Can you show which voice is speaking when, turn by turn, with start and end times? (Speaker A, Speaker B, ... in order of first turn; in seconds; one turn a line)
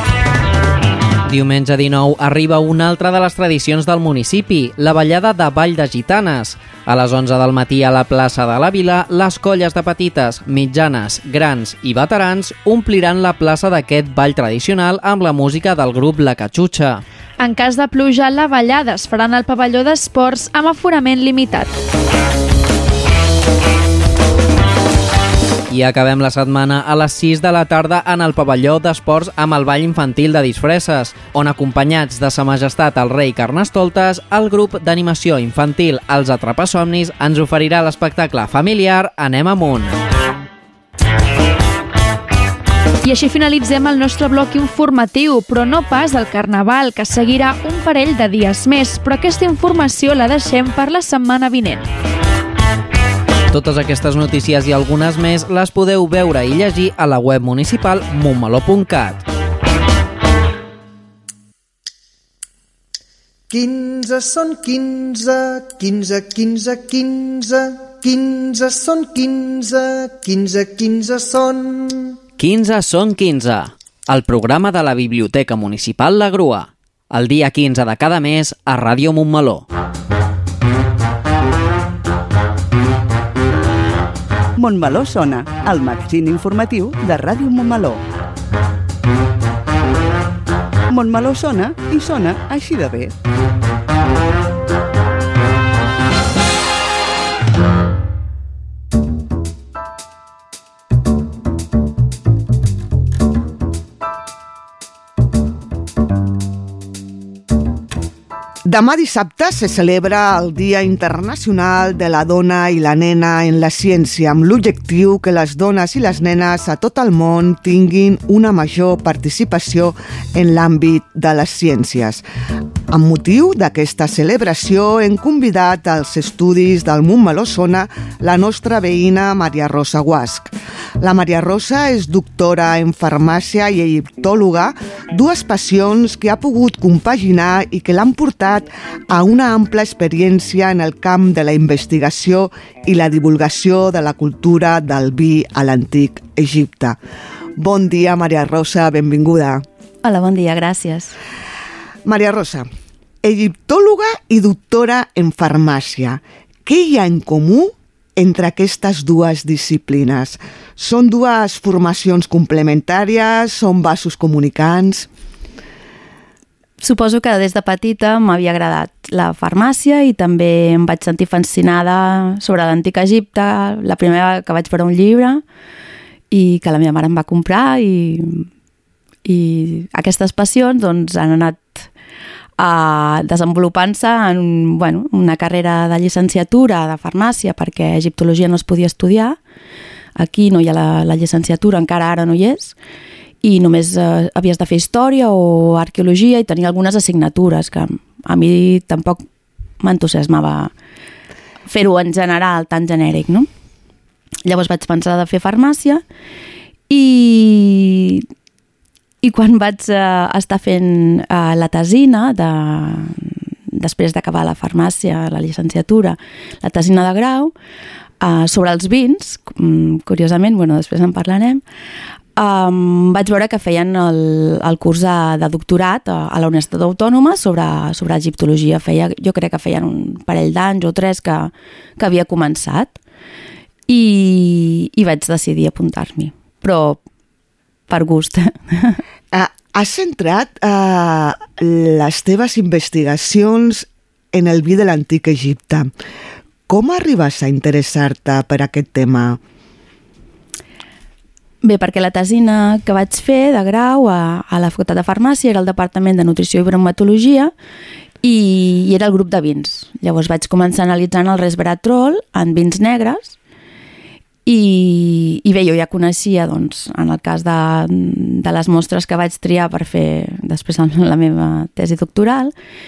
Speaker A: 1.3-17.0
Speaker B: 17.4-21.7
Speaker A: 25.7-39.9
Speaker B: 43.0-51.9
Speaker A: 53.5-59.2
Speaker C: 63.5-72.1
Speaker A: 72.4-79.7
Speaker D: 84.6-88.0
Speaker D: 90.9-93.1
Speaker E: 108.6-122.2
Speaker E: 122.9-147.0
Speaker E: 147.6-149.6
Speaker F: 150.0-151.1
Speaker E: 152.0-152.7
Speaker E: 153.2-165.1
Speaker F: 166.8-175.4
Speaker F: 176.3-178.5
Speaker F: 179.2-181.9
Speaker F: 182.6-189.4
Speaker F: 190.2-192.7
Speaker F: 193.4-199.2
Speaker F: 199.8-200.7
Speaker F: 201.7-203.5
Speaker F: 204.4-206.0
Speaker F: 206.9-208.3
Speaker F: 209.2-217.5
Speaker F: 218.2-221.6
Speaker F: 222.3-233.0
Speaker F: 233.9-237.0
Speaker F: 237.9-239.0
Speaker E: 239.3-245.9
Speaker E: 246.7-249.4
Speaker F: 251.6-257.5
Speaker F: 258.2-263.4
Speaker F: 264.4-272.5